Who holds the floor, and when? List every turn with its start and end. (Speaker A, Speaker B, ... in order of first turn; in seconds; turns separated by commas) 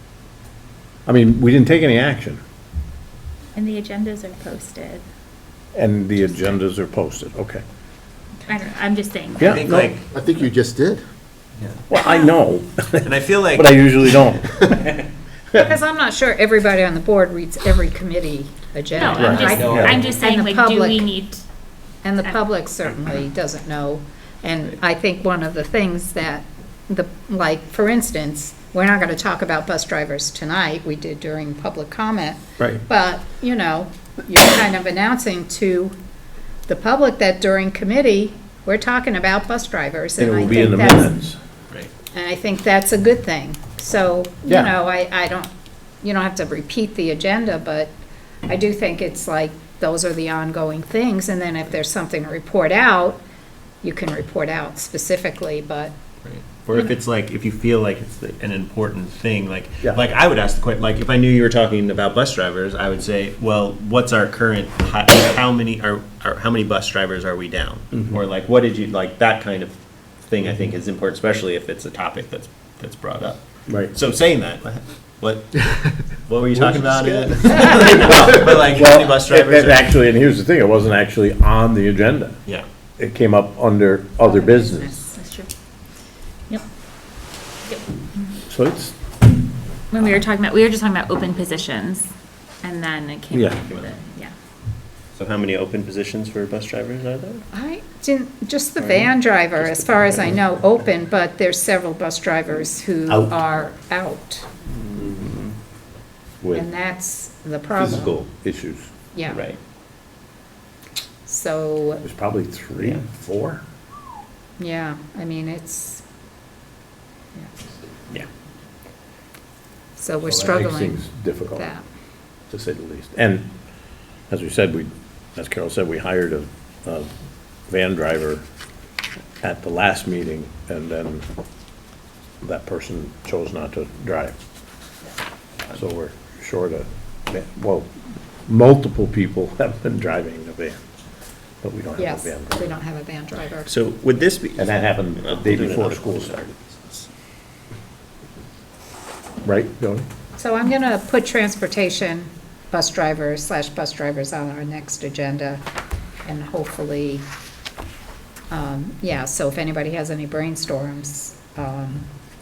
Speaker A: 1.1-2.4, Speaker B: 3.5-5.0, Speaker A: 5.8-7.6, Speaker B: 8.5-9.6, Speaker A: 9.4-9.9, Speaker C: 9.4-10.1, Speaker D: 10.2-11.0, Speaker A: 11.9-14.9, Speaker C: 13.0-13.8, Speaker E: 15.6-21.1, Speaker B: 18.9-21.4, Speaker A: 19.1-20.1, Speaker D: 19.5-20.0, Speaker E: 22.0-35.9, Speaker E: 36.7-41.1, Speaker A: 40.2-41.4, Speaker E: 42.1-45.5, Speaker E: 46.0-47.9, Speaker E: 48.5-53.2, Speaker E: 53.8-55.9, Speaker C: 56.2-69.8, Speaker C: 70.3-75.7, Speaker C: 76.2-79.9, Speaker D: 76.9-78.2, Speaker A: 78.6-82.3, Speaker A: 83.0-85.1, Speaker E: 84.2-85.0, Speaker B: 85.2-85.5, Speaker A: 88.5-89.0, Speaker B: 89.9-92.1, Speaker B: 92.6-94.3, Speaker A: 93.3-93.6, Speaker C: 93.7-93.9, Speaker C: 95.2-97.5, Speaker E: 97.5-104.5, Speaker C: 98.8-100.4, Speaker A: 103.1-103.4, Speaker C: 104.7-105.5, Speaker E: 106.5-108.1, Speaker A: 107.8-108.9, Speaker E: 109.1-109.4, Speaker C: 109.3-109.6, Speaker E: 111.3-112.0, Speaker A: 112.0-113.6, Speaker E: 114.6-116.0, Speaker E: 120.0-121.8, Speaker A: 120.2-121.7, Speaker A: 122.5-123.5, Speaker A: 124.3-127.1, Speaker A: 127.7-128.4, Speaker A: 129.4-131.3, Speaker A: 132.4-134.4, Speaker A: 135.7-137.9, Speaker A: 138.5-140.8, Speaker A: 141.6-142.8, Speaker E: 142.0-143.7, Speaker C: 143.7-147.1, Speaker A: 144.6-146.5, Speaker A: 149.4-150.1, Speaker E: 150.4-155.6, Speaker E: 156.2-157.2, Speaker E: 158.5-162.1